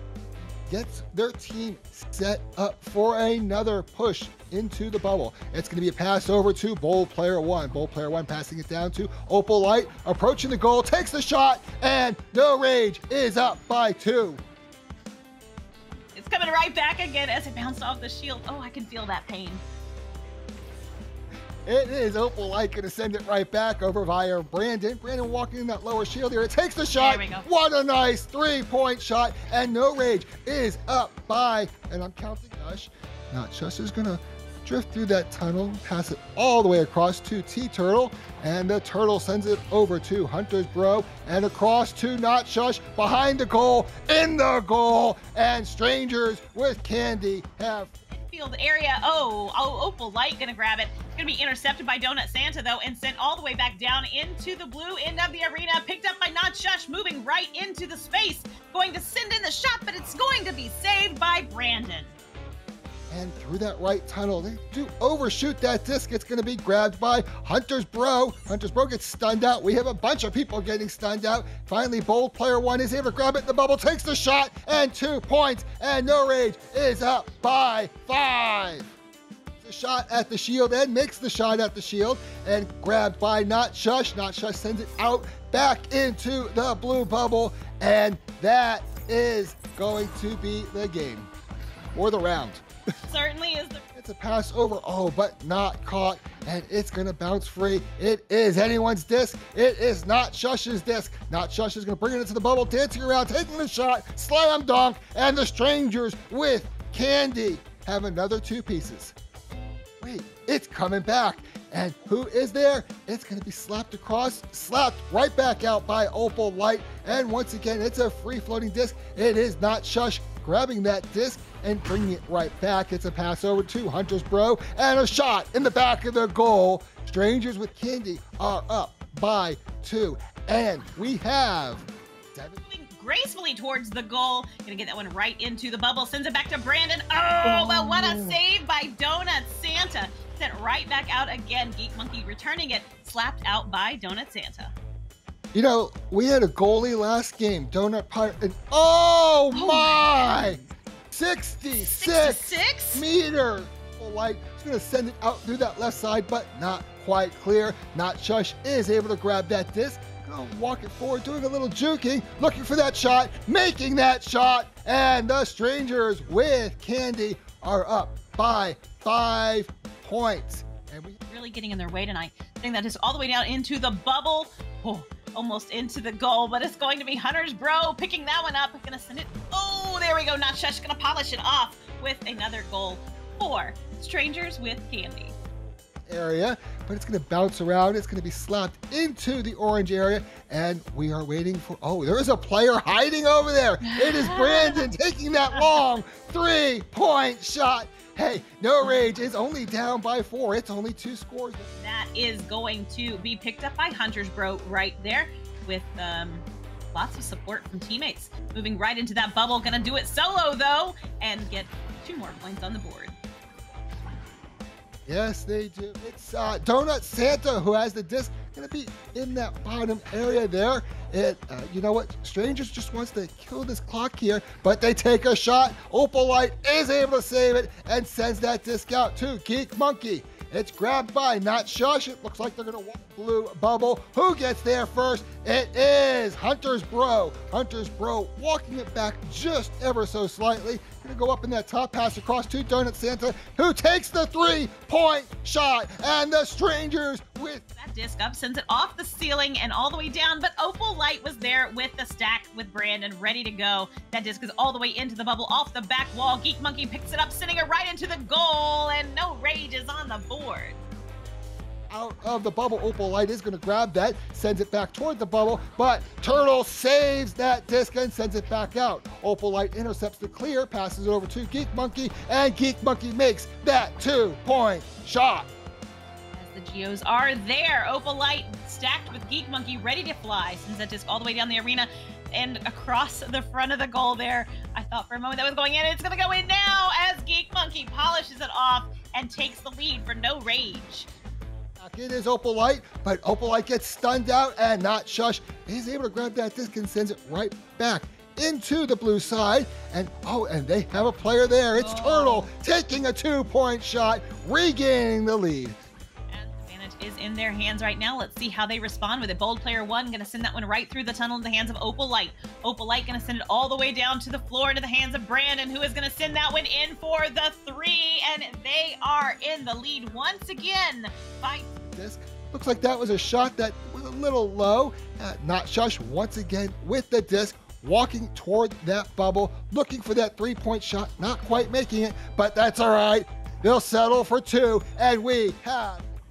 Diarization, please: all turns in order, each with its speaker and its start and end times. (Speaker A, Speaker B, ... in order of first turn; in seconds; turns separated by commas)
Speaker A: 0.7-14.4, Speaker B: 16.1-19.6, Speaker A: 21.7-47.9, Speaker B: 26.9-27.5, Speaker B: 48.1-62.1, Speaker A: 63.1-78.9, Speaker A: 79.6-91.3, Speaker A: 92.0-92.6, Speaker B: 93.1-93.8, Speaker A: 94.0-109.2, Speaker A: 110.0-132.6, Speaker B: 132.6-144.7, Speaker A: 137.4-138.4, Speaker A: 145.5-150.6, Speaker B: 149.5-150.6, Speaker A: 151.1-171.2, Speaker B: 151.9-153.0, Speaker B: 171.3-185.3, Speaker A: 186.1-201.7, Speaker B: 193.8-194.9, Speaker B: 195.5-195.8, Speaker B: 201.8-213.2, Speaker A: 215.1-247.6, Speaker B: 247.8-260.8, Speaker A: 261.9-275.5, Speaker B: 276.3-291.1, Speaker A: 291.8-305.8, Speaker B: 301.8-302.5, Speaker B: 306.3-321.7, Speaker A: 321.9-336.1